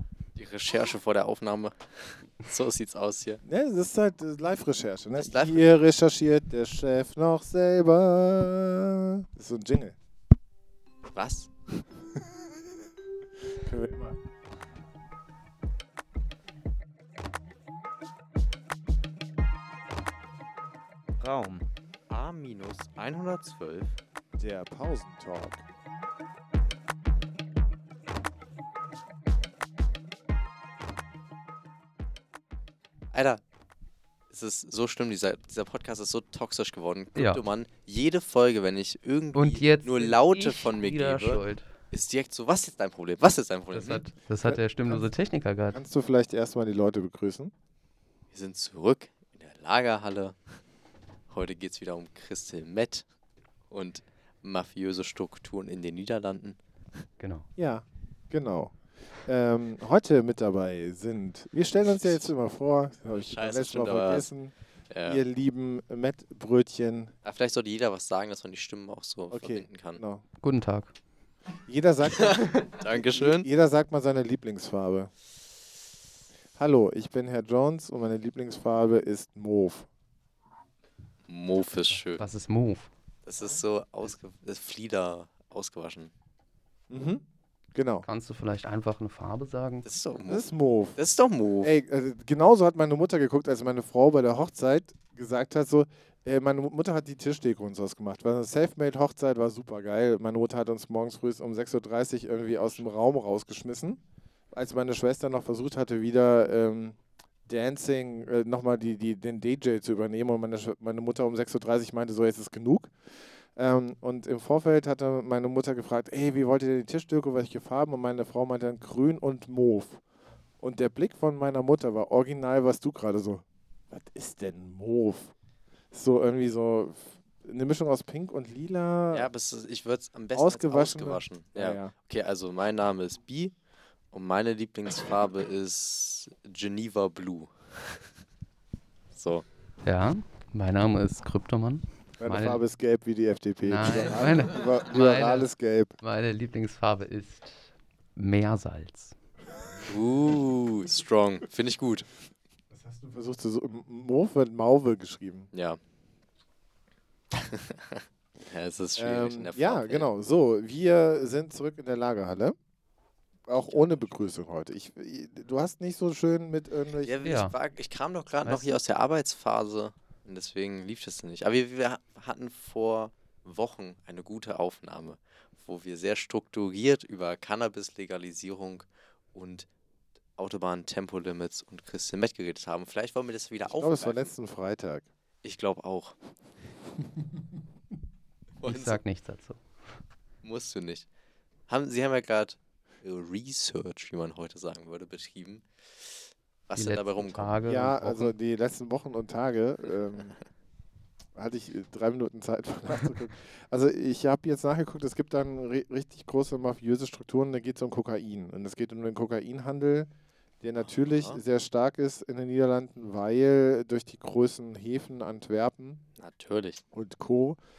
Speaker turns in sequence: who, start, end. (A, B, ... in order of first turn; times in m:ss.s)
0:00.4-0:03.4 A
0:03.4-0:10.0 B
0:05.1-0:05.8 A
0:11.1-0:11.5 A
0:13.6-0:14.2 B
0:21.2-0:24.0 A
0:24.4-0:25.6 B
0:33.1-0:33.4 A
0:34.3-0:44.1 A
0:37.1-0:37.4 C
0:39.3-0:41.7 C
0:43.7-0:45.8 C
0:44.4-0:45.1 B
0:45.7-0:47.5 B
0:48.3-0:50.4 A
0:51.3-0:53.0 A
0:53.7-0:56.6 A
0:57.2-0:57.5 C
0:57.6-1:04.5 B
1:01.8-1:02.3 A
1:03.0-1:04.3 A
1:04.9-1:05.2 A
1:05.0-1:07.1 B
1:07.2-1:10.0 A
1:09.3-1:10.2 B
1:10.4-1:10.9 C
1:11.7-1:15.1 B
1:12.1-1:13.5 A
1:16.6-1:19.9 B
1:21.3-1:22.2 A
1:21.9-1:22.9 C
1:23.2-1:26.1 A
1:26.9-1:27.2 B
1:27.7-1:28.1 B
1:28.0-1:29.9 C
1:29.8-1:31.8 A
1:30.2-1:31.0 B
1:31.6-1:44.0 B
1:42.5-1:42.9 A
1:44.5-1:47.0 B
1:47.5-1:52.9 B
1:53.6-2:00.0 B
2:00.6-2:05.3 B
2:05.9-2:09.3 B
2:09.1-2:13.5 A
2:10.3-2:11.9 B
2:14.1-2:17.6 A
2:19.1-2:19.4 A
2:19.8-2:22.6 C
2:22.2-2:26.0 B
2:23.6-2:29.1 C
2:29.9-2:32.1 A
2:32.7-2:35.5 B
2:35.5-2:35.8 A
2:37.3-2:40.1 A
2:39.0-2:42.5 B
2:43.4-2:47.3 B
2:43.5-2:44.3 A
2:47.0-2:59.7 A
2:47.2-2:47.5 C
2:48.4-2:48.8 C
3:00.4-3:04.3 A
3:03.6-3:05.1 B
3:05.4-3:06.2 A
3:08.6-3:09.0 A
3:08.6-3:09.6 C
3:10.4-3:11.1 A
3:11.7-3:15.7 A
3:16.7-3:17.6 A
3:16.7-3:18.3 C
3:17.6-3:20.4 B
3:21.4-3:30.1 B
3:30.6-3:36.0 B
3:30.8-3:31.4 A
3:36.2-3:36.8 A
3:36.9-3:37.6 B